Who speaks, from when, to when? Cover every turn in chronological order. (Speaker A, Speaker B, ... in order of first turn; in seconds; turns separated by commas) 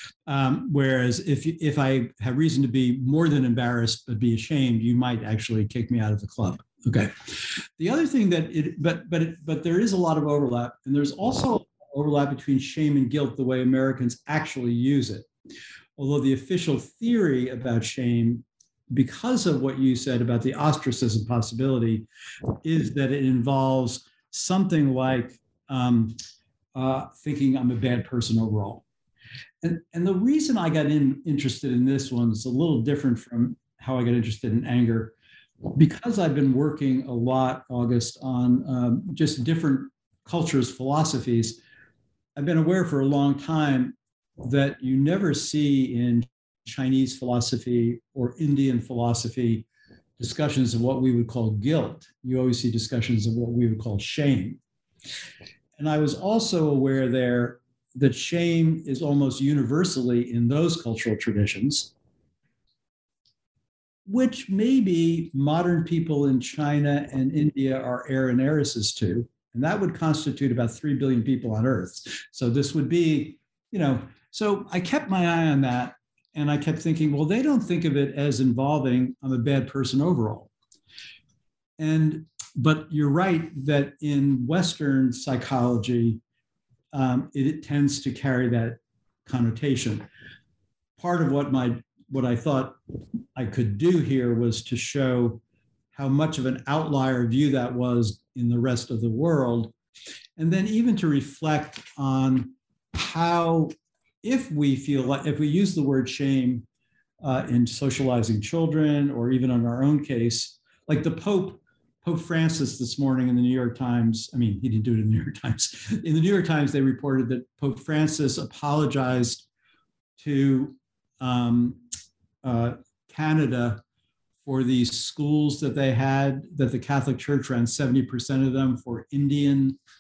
Speaker A: 0.3-15.3, Speaker A: 16.0-22.1, Speaker A: 22.6-26.2, Speaker A: 26.7-28.8, Speaker A: 29.6-35.1, Speaker A: 35.7-41.6, Speaker A: 42.4-49.6, Speaker A: 50.2-54.6, Speaker A: 55.8-61.9, Speaker A: 64.1-80.5, Speaker A: 81.8-86.2, Speaker A: 86.9-90.0, Speaker A: 91.0-92.8, Speaker A: 93.4-95.4, Speaker A: 95.9-99.7, Speaker A: 100.4-106.7, Speaker A: 107.2-119.5, Speaker A: 120.2-121.8, Speaker A: 122.4-123.8, Speaker A: 124.4-129.8